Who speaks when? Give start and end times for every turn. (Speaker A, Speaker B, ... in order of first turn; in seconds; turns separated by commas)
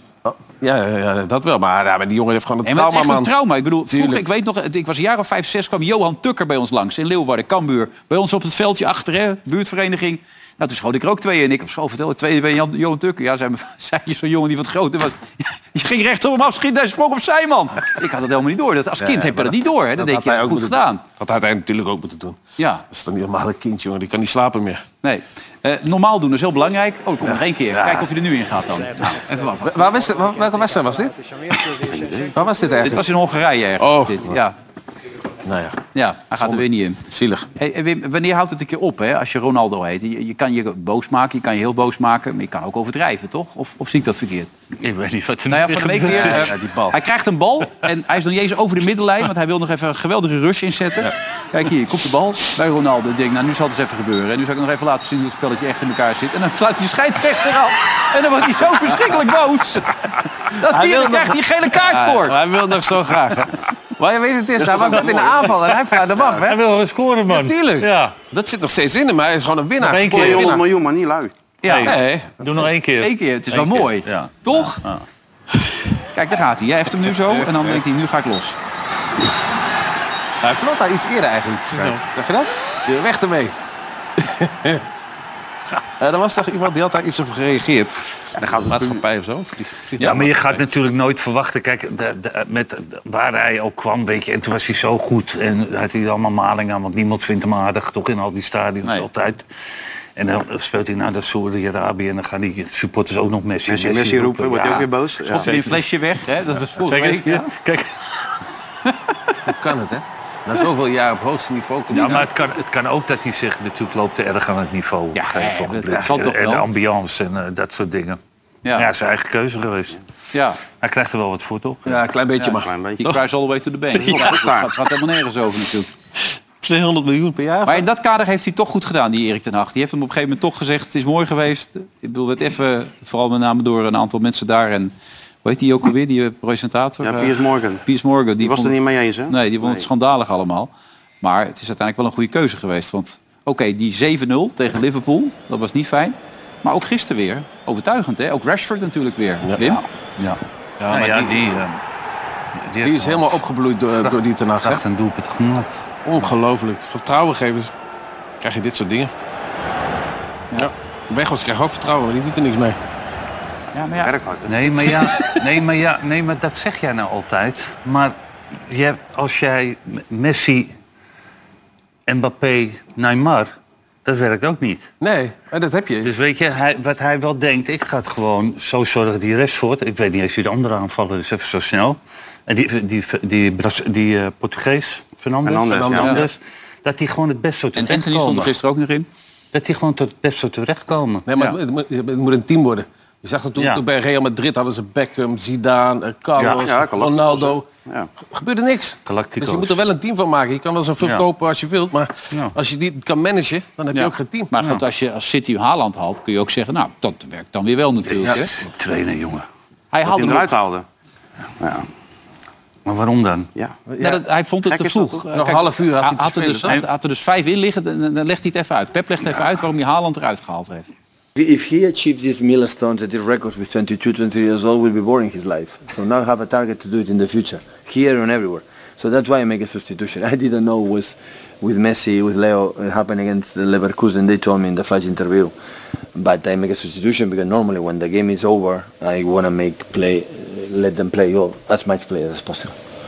Speaker A: 0.2-3.3, Speaker B: 2.6-21.0, Speaker A: 3.9-4.2, Speaker A: 19.0-22.4, Speaker B: 22.6-22.8, Speaker A: 22.9-24.8, Speaker B: 25.0-29.8, Speaker A: 27.2-28.1, Speaker A: 29.6-31.2, Speaker C: 31.9-32.4, Speaker A: 32.3-33.1, Speaker B: 32.8-34.5, Speaker A: 33.8-34.4, Speaker A: 35.4-35.8, Speaker B: 35.9-37.0, Speaker A: 36.4-37.5, Speaker B: 37.5-44.5, Speaker D: 44.8-46.6, Speaker B: 45.5-62.4, Speaker A: 46.1-47.0, Speaker A: 60.6-66.6, Speaker D: 64.7-68.2, Speaker A: 67.3-70.6, Speaker D: 69.8-70.6, Speaker C: 70.1-71.3, Speaker B: 71.6-72.0, Speaker D: 71.6-75.0, Speaker A: 71.8-72.7, Speaker B: 73.0-74.8, Speaker B: 76.1-78.6, Speaker A: 77.3-77.8, Speaker A: 80.4-83.5, Speaker A: 84.2-84.8, Speaker A: 86.0-90.6, Speaker C: 88.3-89.0, Speaker D: 90.0-99.5, Speaker D: 100.1-104.9, Speaker C: 103.7-105.6, Speaker B: 105.2-107.5, Speaker A: 106.8-107.4, Speaker B: 108.8-109.3, Speaker A: 109.4-112.3, Speaker D: 111.9-118.2, Speaker B: 115.1-116.7, Speaker A: 115.9-116.2, Speaker D: 118.7-120.0, Speaker B: 120.3-120.6, Speaker D: 120.8-122.0, Speaker A: 121.8-123.2, Speaker B: 122.4-125.9, Speaker C: 122.5-123.2, Speaker C: 124.0-124.7, Speaker A: 124.1-124.4, Speaker A: 126.2-127.8, Speaker B: 127.6-134.9, Speaker B: 135.4-138.7, Speaker C: 137.0-137.8, Speaker C: 138.4-139.9, Speaker B: 139.3-149.8, Speaker A: 149.4-149.8, Speaker D: 150.2-151.8, Speaker A: 150.8-151.5, Speaker D: 152.6-155.9, Speaker A: 152.8-154.8, Speaker A: 156.0-157.7, Speaker A: 158.4-159.1, Speaker A: 160.5-162.8, Speaker B: 163.7-164.1, Speaker C: 164.0-164.9, Speaker D: 164.5-170.8, Speaker A: 165.1-165.4, Speaker D: 172.1-173.5, Speaker D: 174.0-174.9, Speaker A: 175.0-176.1, Speaker D: 176.0-188.5, Speaker C: 185.4-186.2, Speaker A: 185.7-186.2, Speaker B: 187.7-189.1, Speaker D: 189.5-191.3, Speaker A: 191.3-197.7, Speaker D: 193.6-193.8, Speaker D: 196.4-196.7, Speaker C: 196.5-198.1, Speaker A: 198.2-204.5, Speaker D: 199.1-199.8, Speaker D: 201.0-201.2, Speaker D: 202.3-202.6, Speaker B: 203.9-208.5, Speaker D: 204.6-204.8, Speaker D: 208.1-209.4, Speaker B: 209.9-210.5, Speaker C: 210.0-210.8, Speaker C: 211.6-211.9, Speaker D: 212.8-213.5, Speaker A: 213.9-214.2, Speaker B: 214.0-220.9, Speaker C: 214.6-215.2, Speaker A: 215.3-216.8, Speaker E: 221.3-235.5, Speaker E: 236.1-242.7